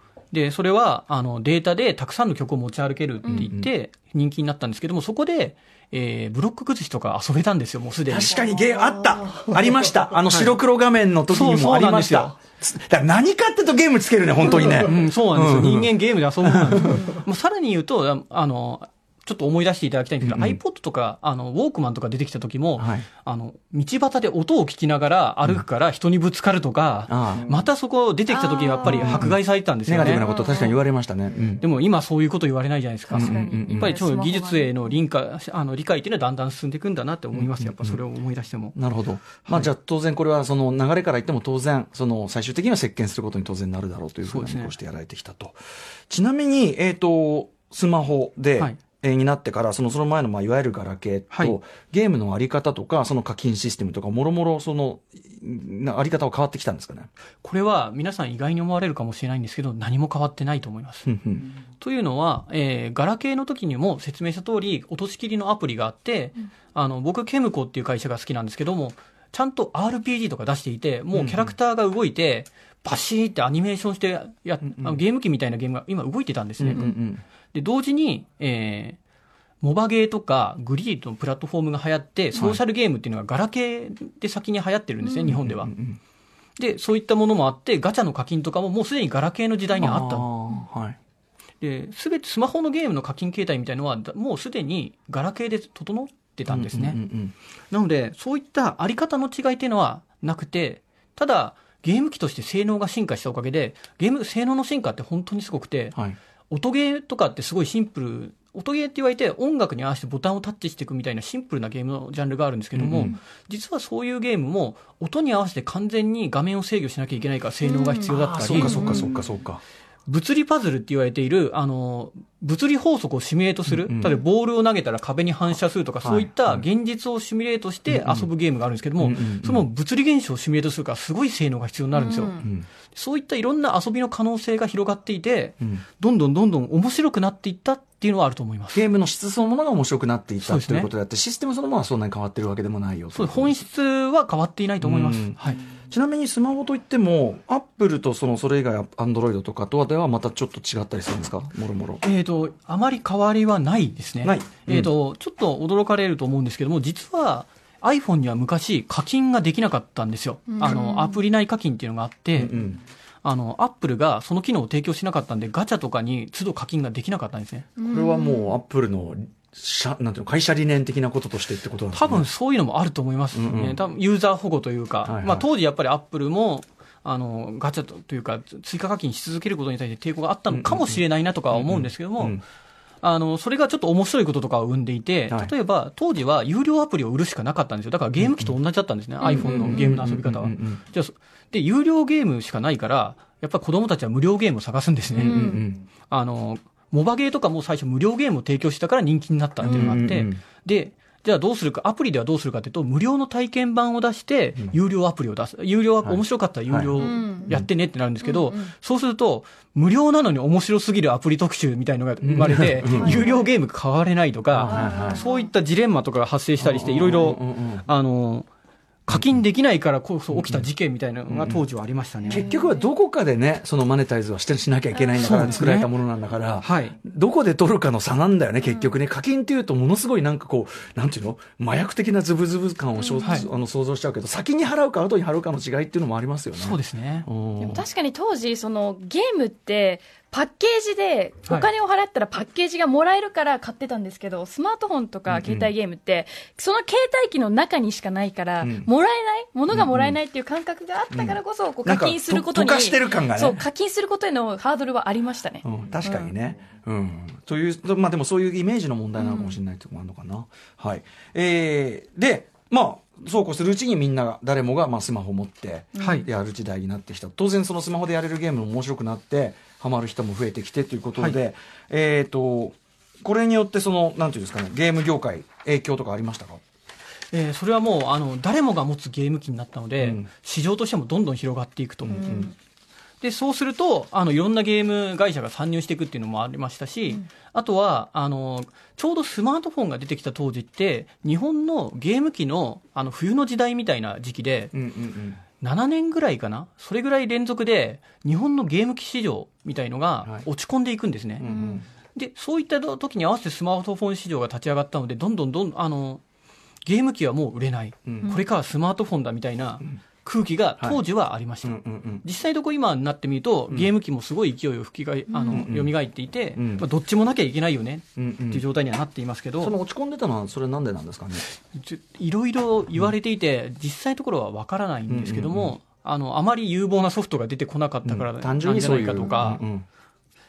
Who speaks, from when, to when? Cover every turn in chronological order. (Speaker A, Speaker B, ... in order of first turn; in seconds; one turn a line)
Speaker A: 0.3-8.4
Speaker B: 3.3-3.7
Speaker B: 8.1-17.2
Speaker A: 11.3-12.4
Speaker A: 14.8-30.3
Speaker B: 20.2-20.6
Speaker B: 22.8-23.1
Speaker B: 27.1-27.5
Speaker C: 28.3-29.2
Speaker B: 28.9-31.6
Speaker C: 30.0-30.8
Speaker A: 31.6-38.8
Speaker B: 33.1-34.0
Speaker C: 33.1-35.0
Speaker B: 37.3-38.0
Speaker B: 38.8-45.6
Speaker A: 39.4-39.7
Speaker A: 44.2-44.7
Speaker B: 46.1-57.1
Speaker A: 51.3-51.6
Speaker A: 57.4-61.1
Speaker B: 61.1-61.5
Speaker A: 61.8-76.9
Speaker B: 71.1-71.5
Speaker B: 74.7-75.0
Speaker B: 76.6-77.2
Speaker A: 77.5-79.0
Speaker A: 79.6-85.7
Speaker B: 82.3-82.6
Speaker B: 85.2-86.0
Speaker A: 86.6-90.3
Speaker B: 89.8-91.0
Speaker A: 91.6-97.0
Speaker B: 96.5-97.3
Speaker A: 97.7-106.0
Speaker A: 106.5-119.1
Speaker B: 112.8-113.1
Speaker C: 117.7-119.1
Speaker B: 118.1-119.6
Speaker A: 120.1-132.4
Speaker B: 123.7-124.2
Speaker B: 126.0-126.7
Speaker B: 127.9-128.3
Speaker B: 129.0-129.7
Speaker C: 131.9-132.4
Speaker B: 132.4-132.7
Speaker A: 132.9-138.8
Speaker B: 138.7-143.6
Speaker A: 140.4-140.9
Speaker A: 143.1-145.6
Speaker B: 144.8-152.0
Speaker A: 152.0-162.6
Speaker B: 154.2-154.9
Speaker C: 160.5-161.2
Speaker B: 162.3-162.8
Speaker A: 163.2-167.7
Speaker C: 167.8-168.6
Speaker B: 167.9-172.3
Speaker A: 171.9-182.4
Speaker B: 173.3-173.8
Speaker B: 175.1-175.5
Speaker B: 180.5-182.4
Speaker A: 183.0-218.5
Speaker B: 188.2-188.6
Speaker C: 189.2-189.8
Speaker B: 189.3-190.8
Speaker B: 195.1-195.8
Speaker C: 195.2-195.7
Speaker B: 199.6-200.4
Speaker B: 206.0-207.7
Speaker C: 207.0-207.6
Speaker C: 208.2-208.7
Speaker B: 212.2-213.2
Speaker C: 212.9-213.5
Speaker B: 214.5-215.2
Speaker C: 214.7-215.5
Speaker B: 216.6-217.9
Speaker A: 219.1-222.5
Speaker B: 219.1-219.4
Speaker B: 220.3-220.7
Speaker B: 221.3-221.6
Speaker C: 222.3-222.9
Speaker B: 222.3-237.8
Speaker C: 224.9-225.6
Speaker A: 225.2-225.9
Speaker A: 226.6-227.0
Speaker C: 233.0-233.4
Speaker A: 233.2-233.5
Speaker A: 236.5-237.3
Speaker C: 237.6-256.3
Speaker B: 245.3-245.7
Speaker B: 248.6-248.9
Speaker B: 249.7-250.2
Speaker B: 251.1-253.7
Speaker B: 255.6-276.6
Speaker C: 259.2-259.6
Speaker A: 266.0-266.3
Speaker A: 277.3-282.5
Speaker B: 280.0-280.3
Speaker B: 282.0-282.5
Speaker C: 282.1-282.5
Speaker A: 283.2-294.7
Speaker B: 294.7-295.4
Speaker A: 295.6-301.5
Speaker B: 301.4-301.9
Speaker C: 301.4-301.8
Speaker A: 302.1-306.2
Speaker A: 306.9-319.7
Speaker B: 308.1-308.4
Speaker B: 311.6-312.2
Speaker C: 315.3-315.6
Speaker B: 315.5-315.9
Speaker B: 316.6-316.9
Speaker B: 318.2-318.6
Speaker B: 319.6-321.5
Speaker A: 321.7-329.6
Speaker B: 325.1-325.8
Speaker B: 328.0-329.9